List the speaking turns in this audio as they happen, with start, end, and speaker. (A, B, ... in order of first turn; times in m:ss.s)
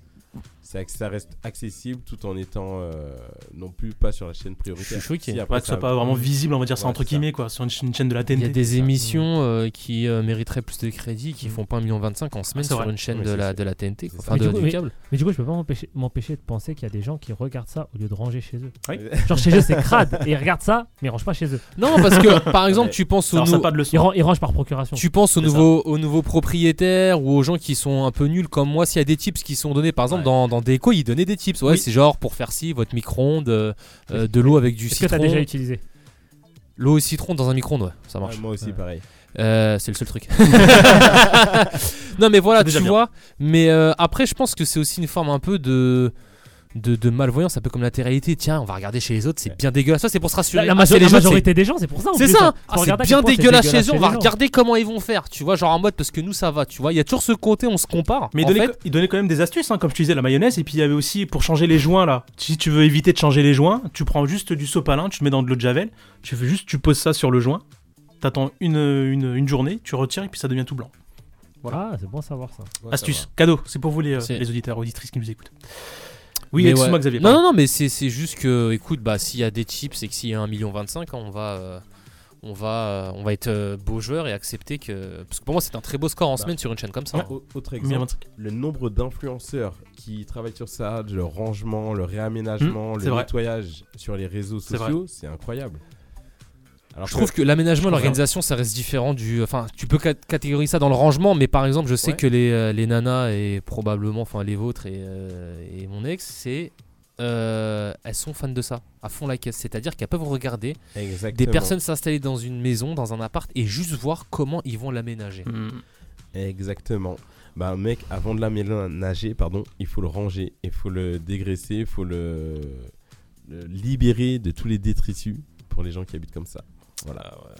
0:00.6-0:07.3 A
0:04.8-0:05.4 B
0:05.5-0:08.6 C
0:08.3-0:14.9 B
0:09.0-0:09.2 D
0:12.5-0:12.9 C
0:13.1-0:14.6 A
0:14.3-0:21.7 D
0:18.9-0:20.0 A
0:21.8-0:23.7 B
0:22.1-0:22.5 C
0:22.6-0:23.0 A
0:23.3-0:24.1 C
0:23.9-0:25.0 D
0:25.0-0:35.5 B
0:34.1-0:35.8 D
0:36.8-0:38.4 B
0:38.2-0:39.0 A
0:39.3-0:46.1 B
0:42.6-0:43.0 C
0:46.7-0:51.5 B
0:50.5-0:54.3 D
0:52.1-0:58.7 B
0:58.3-1:07.6 C
1:08.2-1:10.9 C
1:11.7-1:12.7 D
1:12.8-1:13.3 A
1:12.9-1:16.0 C
1:14.2-1:14.4 B
1:16.5-1:17.4 C
1:16.5-1:21.8 B
1:22.4-1:27.3 B
1:27.1-1:28.2 C
1:27.1-1:35.8 A
1:32.6-1:33.3 C
1:34.7-1:34.9 C
1:36.9-1:37.3 A
1:37.0-1:50.8 B
1:37.9-1:38.2 A
1:37.9-1:38.2 C
1:50.9-1:51.7 A
1:51.3-1:55.5 B
1:55.4-1:55.8 C
1:56.3-2:02.9 A
2:03.4-2:07.2 A